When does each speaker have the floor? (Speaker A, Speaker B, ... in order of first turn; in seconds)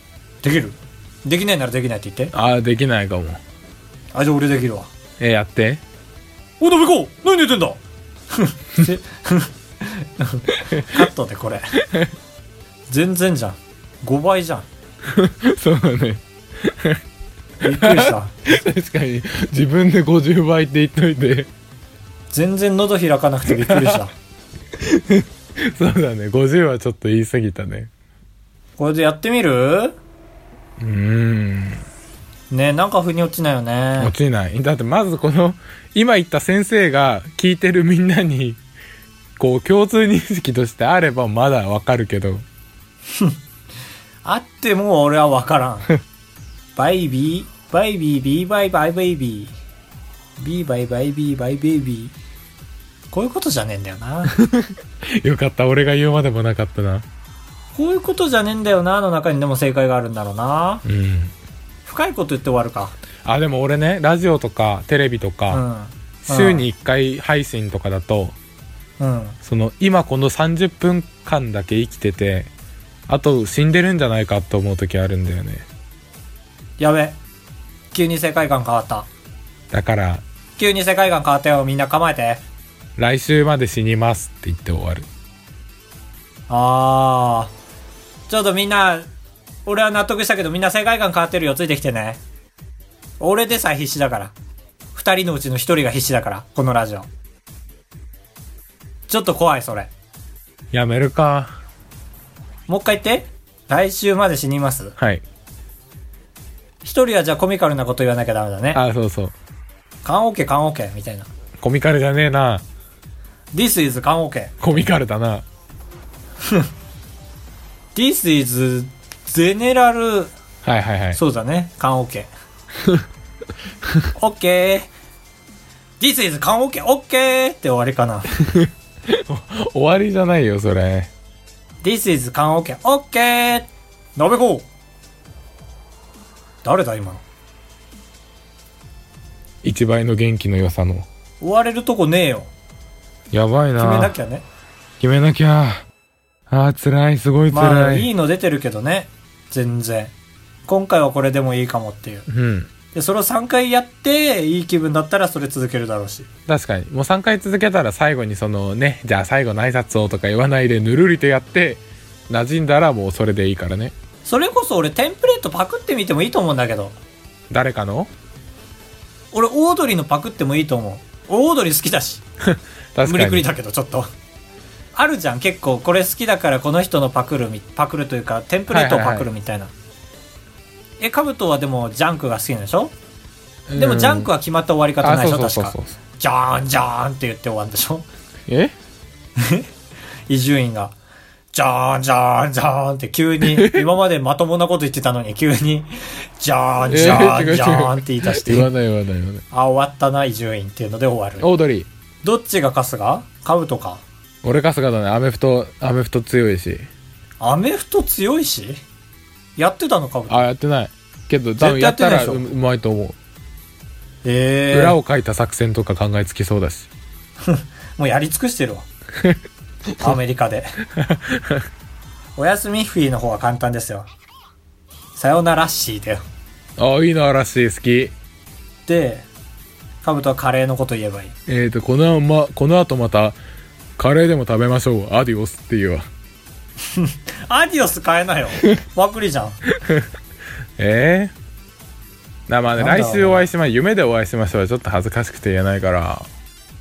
Speaker A: 0.4-2.3, 4.1-4.9, 6.6-7.8, 8.3-11.8, 12.9-14.7, 17.6-18.3, 22.3-24.1, 28.8-29.9, 32.5-34.1, 44.2-45.9, 46.8-49.5, 50.4-52.1, 53.1-54.4, 57.7-60.8, 61.9-63.0, 65.5-66.7, 69.0-69.4, 76.8-77.2, 77.9-79.1, 80.6-82.4, 86.5-87.5, 88.3-89.1, 89.7-92.2, 93.2-94.3, 94.9-97.1, 99.1-99.9, 102.7-105.0, 106.8-108.8, 110.0-111.3, 113.5-114.8, 117.9-120.3, 121.1-122.3, 124.1-124.9, 126.0-128.3, 131.8-134.7, 136.6-137.2, 141.4-142.5, 143.8-144.4, 147.5-150.1, 150.7-152.2, 152.9-156.3, 164.2-166.9, 169.3-172.2, 173.0-174.1, 174.9-179.7, 181.0-182.9, 183.8-188.1, 189.4-189.7, 190.3-190.9, 191.5-198.7, 199.5-201.5, 202.2-204.0, 207.4-208.8, 209.6-210.5, 211.6-212.4, 214.2-215.0, 217.4-218.9, 220.0-220.8, 222.4-224.1, 225.1-226.2, 228.9-229.2, 230.0-231.3, 236.9-239.6, 242.8-243.4
Speaker B: 2.3-3.4, 5.2-5.8, 10.5-11.1, 11.8-12.1, 15.0-17.0, 17.6-21.5, 23.5-24.0, 24.8-27.9, 30.8-31.8, 34.0-38.6, 39.4-42.4, 54.4-57.0, 60.8-61.3, 63.2-65.6, 66.2-68.3, 69.4-72.5, 73.1-75.7, 79.7-80.2, 83.0-85.1, 100.7-101.6, 105.0-105.2, 108.7-109.3, 111.6-112.6, 114.6-115.4, 120.6-121.2, 128.4-131.1, 139.6-141.1, 143.3-144.1, 145.0-145.8, 146.5-148.1, 152.3-152.7, 156.5-163.9, 167.5-168.1, 172.4-173.4, 178.7-179.3, 183.7-184.3, 185.0-185.9, 188.5-188.7, 193.4-193.8, 196.9-199.4, 201.4-201.9, 204.4-206.9, 210.3-213.2, 214.7-216.9, 220.9-221.7, 226.8-228.1, 231.5-233.4, 234.0-236.1, 239.8-240.1, 240.8-241.3, 242.5-246.3